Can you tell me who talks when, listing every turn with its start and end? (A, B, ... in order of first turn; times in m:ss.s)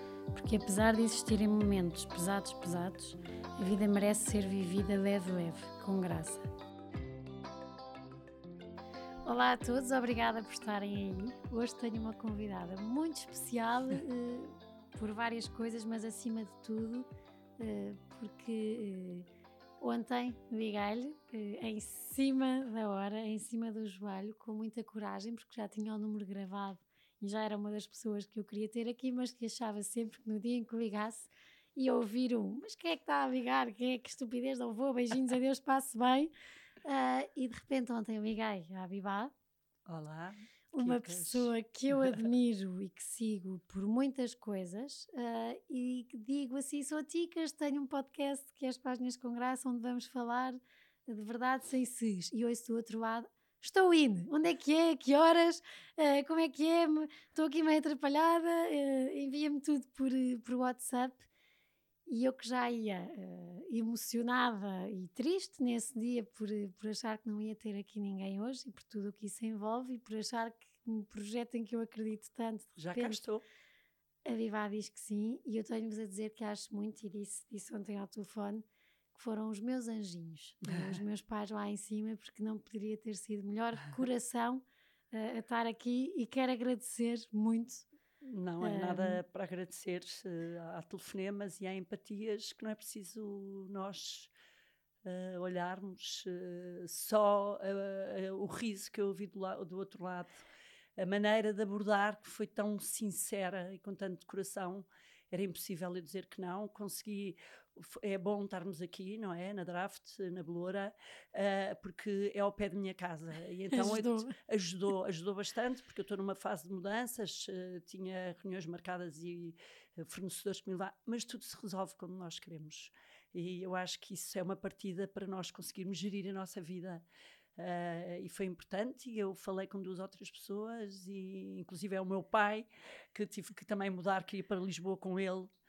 0:00.3-0:06.5 A
0:09.2-0:17.1 A
0:17.6-0:19.3 A
0:19.8-0:36.3 A
0:36.8-0:39.3 A
0:39.8-0:41.5 B
0:40.7-1:01.3 A
1:02.1-1:13.2 A
1:12.8-1:13.4 B
1:14.2-1:27.8 A
1:20.6-1:21.0 B
1:28.2-1:34.3 B
1:28.6-1:29.2 A
1:35.0-1:40.4 B
1:41.0-2:07.0 B
1:53.7-1:54.4 A
2:07.6-2:15.5 B